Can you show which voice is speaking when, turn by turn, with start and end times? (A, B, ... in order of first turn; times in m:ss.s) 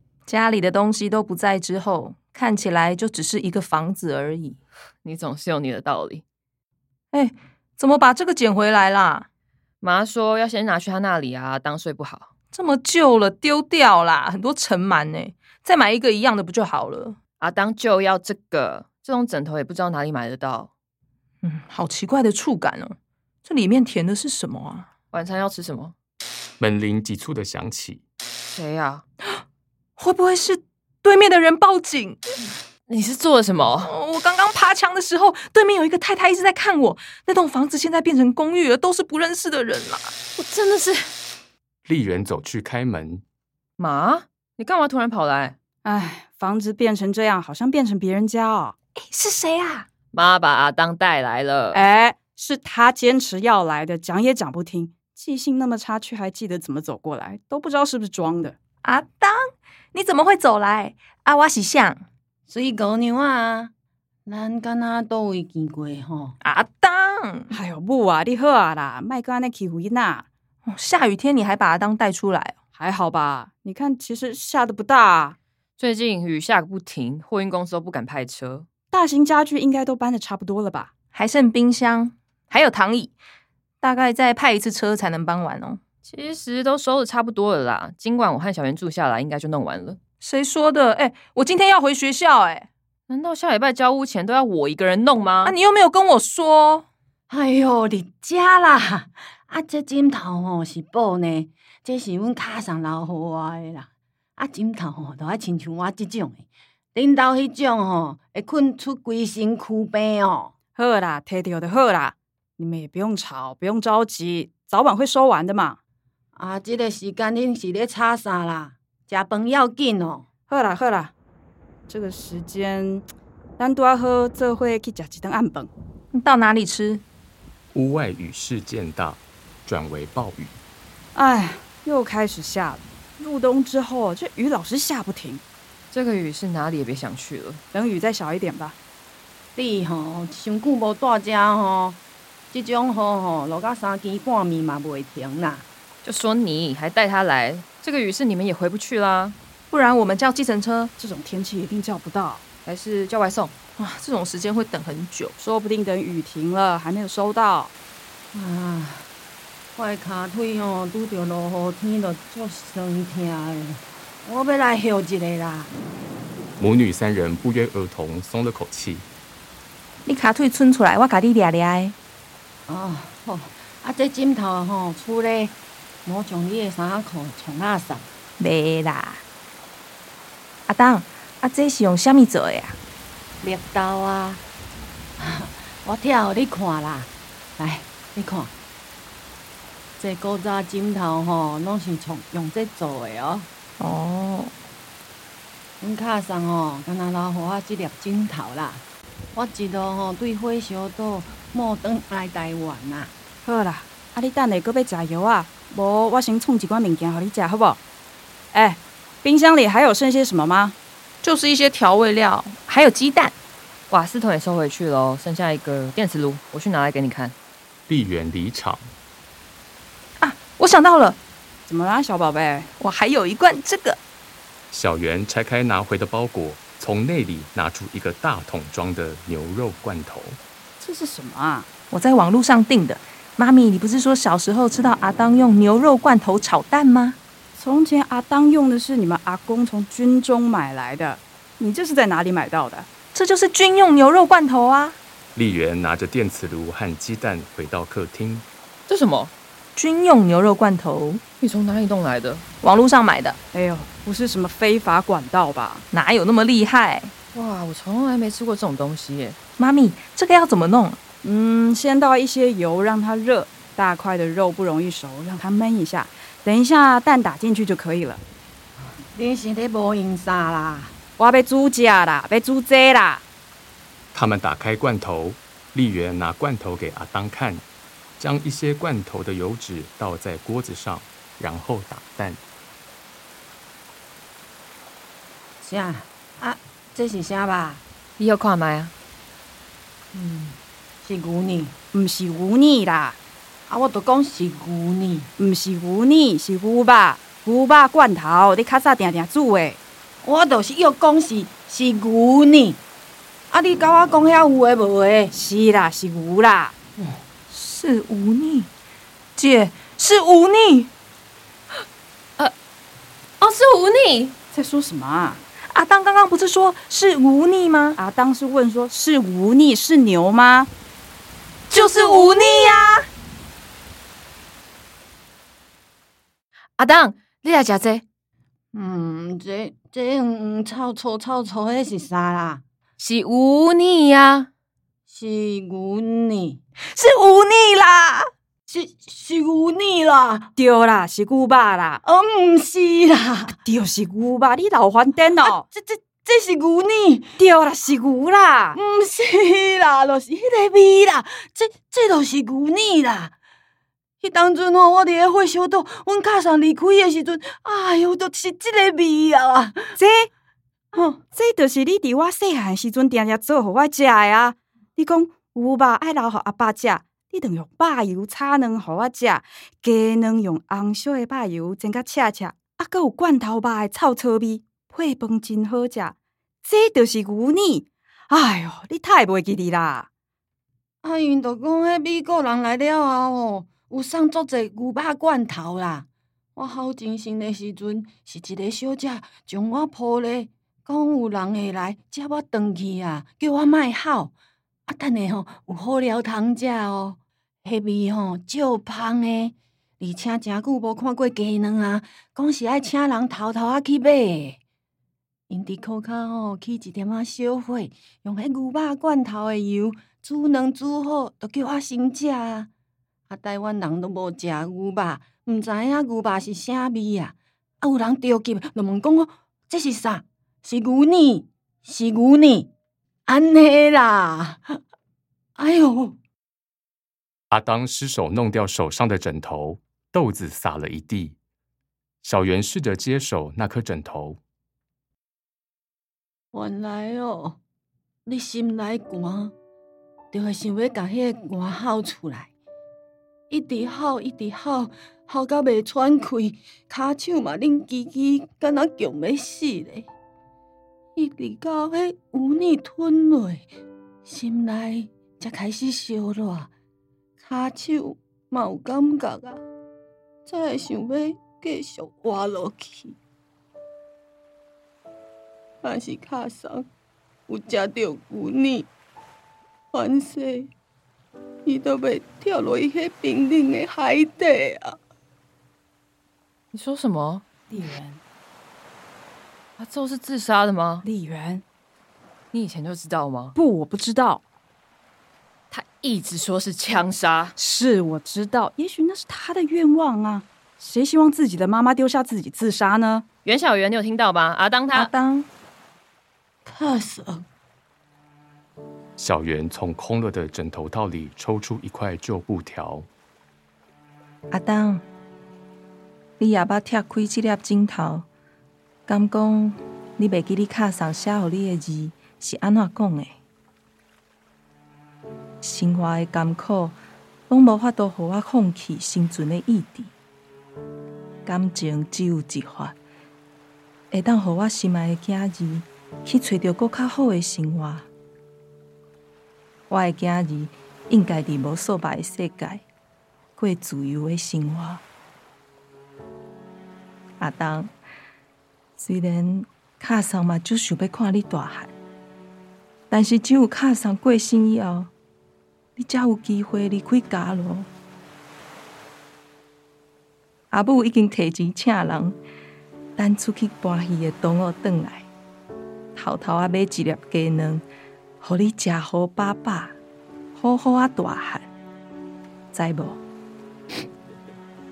0:00.3-0:04.6 A
0:05.0-0:06.2 B
0:07.1-0:09.3 A
0:09.8-0:12.3 B
0:12.5-0:17.2 A
0:17.4-0:20.7 B
0:21.4-0:24.9 A
0:25.1-0:25.9 B
0:26.6-0:28.0 C
0:28.5-0:29.0 B
0:30.0-0:32.4 A
0:32.9-0:33.9 B
0:33.8-0:40.1 A
0:40.4-0:41.1 B
0:41.8-0:43.2 C
0:43.8-0:45.6 B
0:45.8-0:48.7 D
0:49.1-0:49.9 A
0:50.1-0:51.8 B
0:51.7-0:58.6 D
0:58.8-0:59.3 A
0:59.9-1:02.0 A
1:02.5-1:03.7 E
1:04.2-1:06.4 E
1:06.4-1:07.5 A
1:07.5-1:10.2 D
1:10.6-1:12.5 A
1:12.7-1:15.4 D
1:15.8-1:18.7 B
1:18.9-1:20.9 D
1:21.1-1:23.1 A
1:23.8-1:25.8 A
1:26.0-1:30.0 B
1:30.2-1:32.7 A
1:33.1-1:35.6 B
1:35.4-1:36.8 A
1:37.3-1:50.5 E
1:50.8-1:55.8 D
1:56.4-2:00.2 E
2:00.5-2:01.1 D
2:01.9-2:03.1 D
2:03.6-2:05.7 D
2:06.1-2:07.0 A
2:07.7-2:10.6 C
2:11.1-2:15.4 D
2:15.9-2:17.6 B
2:17.7-2:18.8 D
2:19.6-2:22.0 E
2:22.5-2:25.6 E
2:26.0-2:29.4 B
2:29.7-2:30.9 A
2:31.0-2:32.4 D
2:32.6-2:33.5 B
2:33.8-2:35.3 A
2:35.4-2:37.7 D
2:38.3-2:39.1 E
2:39.8-2:45.7 E
2:46.6-2:49.1 C
2:50.0-2:51.9 A
2:52.7-2:58.0 E
2:58.4-2:59.2 A
3:00.7-3:02.8 A
3:03.4-3:04.4 E
3:05.2-3:08.5 E
3:10.0-3:13.5 E
3:13.8-3:14.5 A
3:15.8-3:18.8 E
3:19.3-3:23.1 E
3:23.4-3:27.8 D
3:28.5-3:30.8 D
3:31.2-3:33.3 A
3:33.9-3:37.3 B
3:37.9-3:38.9 C
3:40.2-3:41.2 A
3:41.6-3:42.7 D
3:42.8-3:44.0 A
3:44.7-3:50.4 C
3:50.8-3:51.7 D
3:51.9-3:57.2 A
3:57.5-4:02.9 D
4:03.1-4:05.0 A
4:05.3-4:08.4 C
4:08.9-4:09.3 B
4:09.8-4:11.2 A
4:11.4-4:12.4 B
4:12.6-4:13.4 A
4:13.5-4:15.8 D
4:15.9-4:17.1 A
4:17.3-4:19.4 B
4:19.6-4:21.0 A
4:21.2-4:28.2 D
4:29.1-4:30.9 E
4:31.2-4:33.2 D
4:34.1-4:37.6 C
4:38.2-4:42.4 C
4:45.6-4:47.8 E
4:48.2-4:48.9 B
4:50.1-4:51.7 E
4:51.9-4:53.2 D
4:53.7-4:55.3 E
4:55.4-4:59.8 D
5:00.2-5:02.8 E
5:03.5-5:05.3 E
5:05.3-5:06.7 D
5:07.5-5:08.7 A
5:09.4-5:10.9 A
5:13.4-5:14.3 B
5:14.5-5:15.4 D
5:15.7-5:18.0 A
5:18.0-5:20.7 D
5:21.7-5:23.1 A
5:21.8-5:22.8 E
5:26.8-5:28.0 B
5:28.7-5:32.6 E
5:33.0-5:34.5 B
5:35.1-5:36.6 E
5:36.9-5:38.3 A
5:38.7-5:40.5 E
5:40.6-5:42.0 D
5:42.0-5:43.5 E
5:43.6-5:45.6 D
5:45.4-5:47.4 E
5:47.4-5:48.8 D
5:48.7-5:53.3 E
5:54.2-5:59.9 E
6:00.0-6:00.3 D
6:00.9-6:01.2 E
6:01.3-6:20.1 D
6:21.0-6:34.3 E
6:34.9-6:44.6 E
6:45.5-6:52.7 E
6:53.3-7:02.7 E
7:03.3-7:04.6 E
7:05.6-7:06.2 E
7:07.5-7:11.4 C
7:12.2-7:14.4 C
7:16.5-7:17.6 E
7:18.2-7:19.5 E
7:20.3-7:22.5 E
7:23.5-7:30.1 E
7:31.2-7:33.7 E
7:34.2-7:36.7 E
7:37.4-7:39.6 E
7:40.5-7:43.2 E
7:45.8-7:46.8 E
7:47.5-7:48.9 E
7:49.9-7:50.7 E
7:51.6-7:55.0 E
7:56.7-7:57.4 B
7:57.7-7:58.2 D
7:59.8-8:01.0 B
8:01.0-8:01.6 D
8:02.5-8:03.6 B
8:03.5-8:04.4 D
8:05.7-8:07.5 B
8:07.6-8:13.2 D
8:13.4-8:15.1 B
8:14.9-8:15.5 A
8:16.6-8:17.4 E
8:19.2-8:23.1 C
8:24.5-8:25.0 A
8:26.4-8:28.3 A
8:29.1-8:33.3 A
8:35.6-8:37.0 A
8:37.5-8:40.1 A
8:41.4-8:43.0 A
8:44.1-8:48.1 A
8:49.9-8:52.8 A
8:53.6-8:55.0 A
8:57.4-8:57.9 A
8:59.0-9:01.9 A
9:03.1-9:05.1 A
9:06.0-9:07.9 A
9:10.7-9:12.4 A
9:13.2-9:15.3 A
9:16.1-9:17.8 A
9:18.4-9:20.0 A
9:20.5-9:21.7 A
9:22.7-9:23.2 A